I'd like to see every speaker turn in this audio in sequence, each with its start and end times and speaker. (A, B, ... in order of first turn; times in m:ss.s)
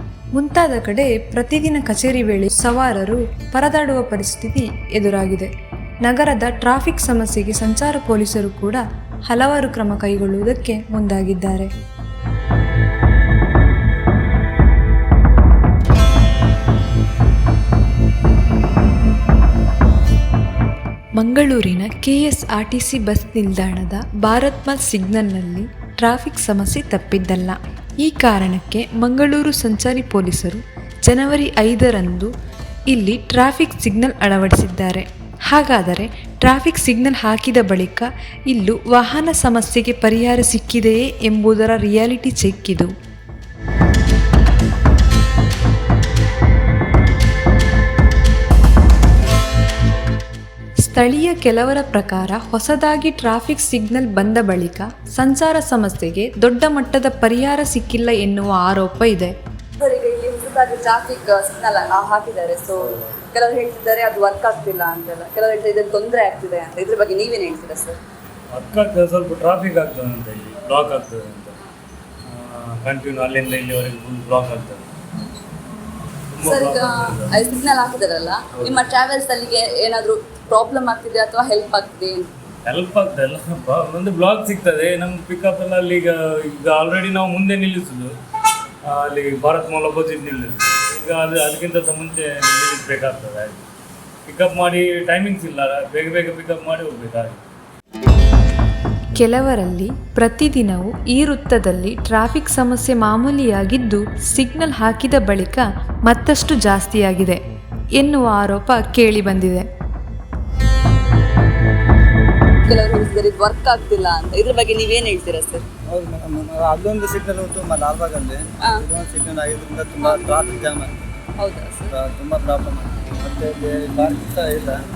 0:00.3-0:05.5 A
0:06.0-0:11.7 A
0:21.2-0:32.3 A
0:32.9-0:42.9 A
0:50.8-0:59.3 A
0:59.8-1:08.0 B
1:08.5-1:11.6 C
1:12.2-1:14.9 C
1:16.3-1:17.3 C
1:16.4-1:22.3 B
1:22.6-1:28.1 C
1:28.8-1:33.6 C
1:34.2-1:37.4 C
1:39.1-1:47.4 A
1:48.0-1:49.6 A
1:52.6-1:55.6 B
1:55.9-2:00.9 D
2:00.0-2:00.3 B
2:01.4-2:01.9 B
2:01.9-2:04.8 D